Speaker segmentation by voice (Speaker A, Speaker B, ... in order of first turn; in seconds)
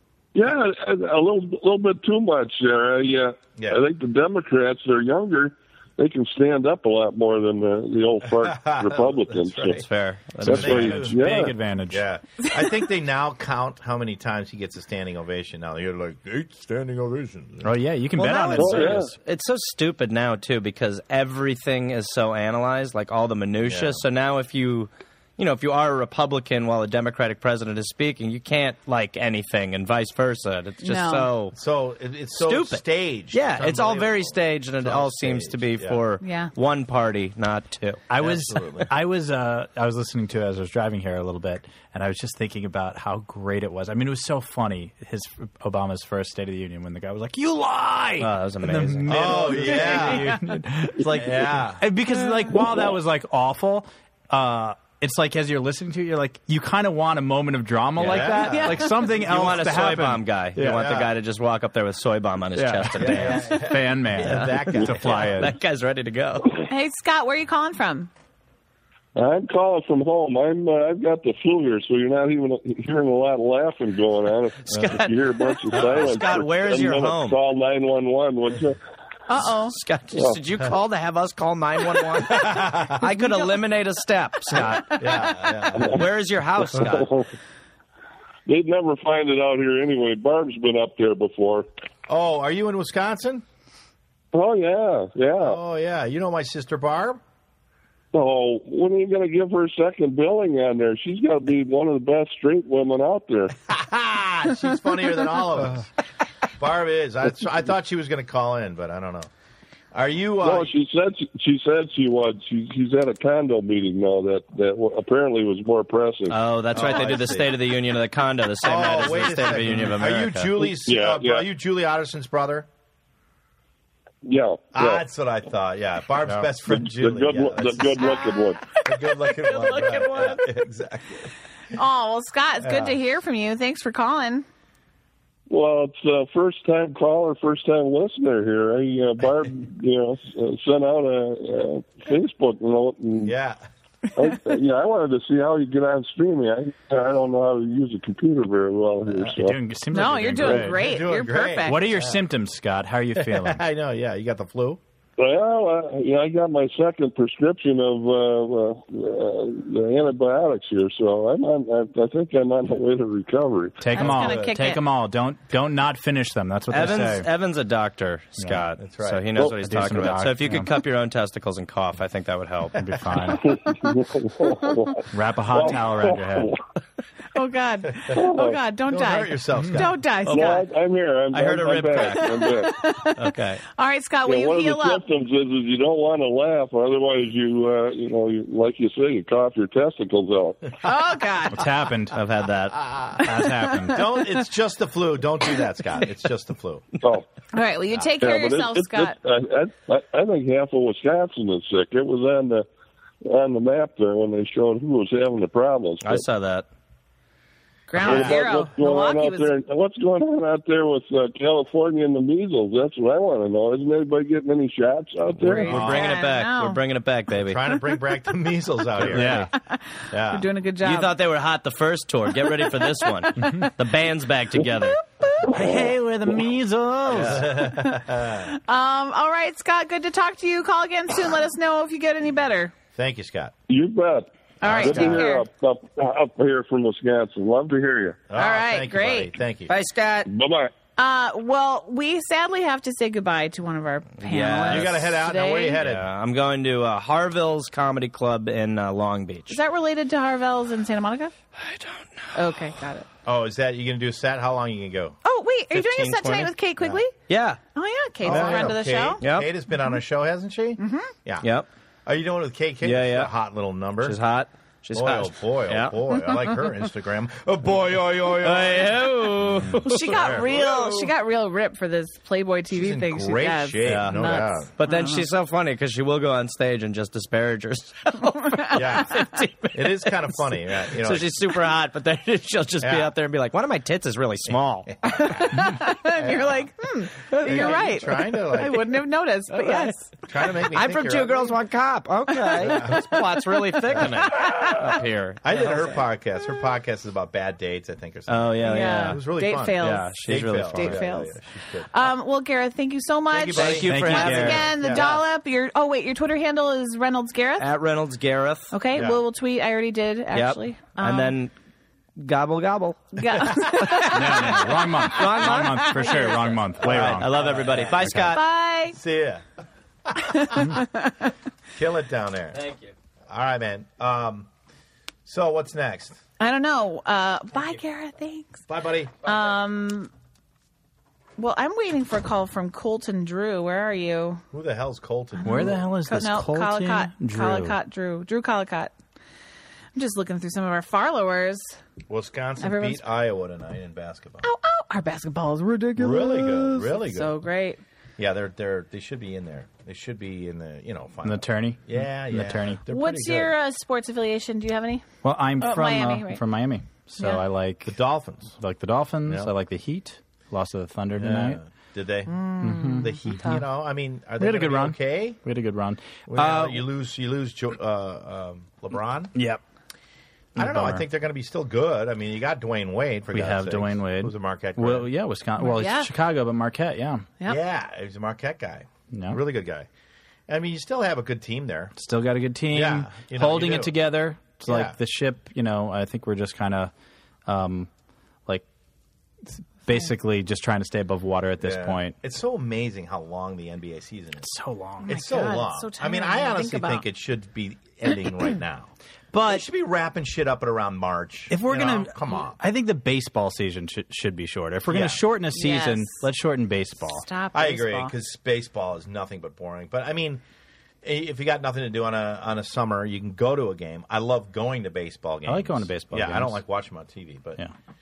Speaker A: 0.3-9.8, 10.4-11.5, 18.6-19.1, 69.2-78.8, 80.1-80.4, 86.8-87.3, 88.5-91.7, 94.3-95.6, 98.1-103.5, 110.4-116.4, 120.8-121.5, 124.2-125.0, 126.7-128.7, 135.5-143.3, 144.2-149.6, 155.2-163.8, 173.4-176.6, 178.1-178.6, 180.2-182.8, 184.2-190.7, 197.0-197.3, 198.2-202.7, 203.2-206.2, 208.0-215.8, 233.7-238.2, 240.3-240.7
Speaker B: 3.6-3.8, 8.4-9.8, 10.4-17.7, 23.6-24.0, 31.5-36.0, 38.2-38.9, 49.1-50.4, 51.0-51.8, 58.0-58.8, 60.6-61.1, 63.0-65.5, 82.3-82.9, 84.7-86.0, 92.1-93.4, 95.4-97.2, 103.7-105.9, 106.6-109.3, 109.9-110.7, 116.7-117.6, 118.6-122.7, 124.7-128.1, 128.8-131.3, 132.6-133.0, 143.2-143.6, 150.4-152.2, 153.2-154.8, 163.9-164.6, 168.8-169.3, 178.9-180.0, 192.9-193.2, 193.8-196.9, 215.7-216.2, 217.4-219.5, 220.1-220.5, 227.1-228.5, 232.9-233.5, 234.6-235.2, 238.3-239.7, 244.7-246.1, 253.2-255.2, 258.2-261.5, 262.1-264.2, 264.9-269.1, 270.0-271.0, 272.7-274.7, 278.7-281.3, 282.8-283.1, 284.9-286.6, 287.3-289.0, 290.3-291.6, 292.6-293.1, 293.9-294.4, 295.4-301.9, 303.3-305.1, 308.9-309.2, 316.8-318.4, 318.9-319.4, 320.1-320.8, 321.8-322.6, 323.3-324.5, 325.3-326.2, 328.7-329.1, 334.5-335.9, 342.1-344.5, 346.0-347.4, 348.2-353.5, 357.9-358.6, 359.3-359.5, 361.2-365.4, 366.3-369.4, 370.6-375.1, 377.4-379.9, 380.5-381.9, 382.7-383.9, 384.7-385.0, 391.6-394.5, 395.1-398.9, 399.4-402.6, 404.9-405.2, 407.5-410.4, 411.0-417.6
Speaker C: 9.8-11.0, 18.1-31.6, 32.4-38.0, 48.2-49.9, 59.2-63.7, 64.2-66.7, 74.7-77.4, 79.4-87.1, 116.3-120.5, 166.7-173.3, 181.3-182.5, 183.2-183.6, 192.1-192.8, 206.0-206.7, 215.5-217.7, 220.8-225.0, 227.1-227.4, 239.7-240.3, 244.2-245.0, 245.8-249.6, 251.6-252.3, 255.7-256.5, 257.3-257.6, 258.2-258.7, 259.2-259.5, 261.4-261.7, 262.8-263.3, 264.0-265.9, 268.4-270.9, 273.9-280.2, 280.9-284.9, 287.3-287.8, 289.5-289.9, 290.6-295.9, 298.3-299.2, 299.8-301.0, 303.5-305.2, 307.6-308.7, 310.3-311.5, 312.2-318.4, 322.5-322.9
Speaker D: 10.4-12.1, 17.6-19.1, 38.1-60.9, 62.6-65.5, 149.3-150.9, 151.6-153.6, 163.8-167.3, 169.4-170.7, 172.8-173.6, 175.1-176.5, 179.6-179.9, 191.5-192.2, 193.2-194.0, 219.0-219.5, 225.5-227.6, 303.9-304.7, 314.1-318.2, 335.4-337.8, 351.2-352.8, 355.2-358.0, 358.6-361.6, 362.6-363.6, 364.4-366.8, 369.4-369.6, 370.6-371.1, 373.3-377.3, 379.1-379.4, 382.0-386.9, 387.5-387.9, 389.4-392.1, 394.4-395.2, 399.3-399.6, 401.5-407.3, 415.5-416.6
Speaker E: 30.8-31.3, 36.2-36.5, 58.4-58.9, 66.7-68.1, 79.3-79.8, 83.0-83.5, 128.0-130.5, 131.7-134.4, 149.9-151.8, 163.9-164.8, 177.3-180.7, 182.1-185.0, 190.8-191.7, 193.2-194.3, 197.5-199.2, 207.9-209.5, 215.5-216.8, 219.5-221.1, 223.4-223.7, 227.8-232.7, 234.6-235.4, 238.3-239.3, 241.0-245.8, 249.5-251.3, 252.3-253.1, 255.2-257.1, 257.7-259.2, 260.8-261.1, 269.8-275.2, 285.1-290.1, 292.5-292.8, 298.7-301.4, 301.9-307.7, 308.7-311.3, 313.2-316.3, 318.3-319.0, 320.3-320.9, 326.4-328.6, 329.2-330.1, 331.4-334.4, 335.4-338.9, 339.9-341.7, 342.6-343.1, 344.4-347.8, 352.9-356.4, 362.3-363.5, 375.6-376.1, 395.1-397.1, 405.5-406.3, 407.1-408.1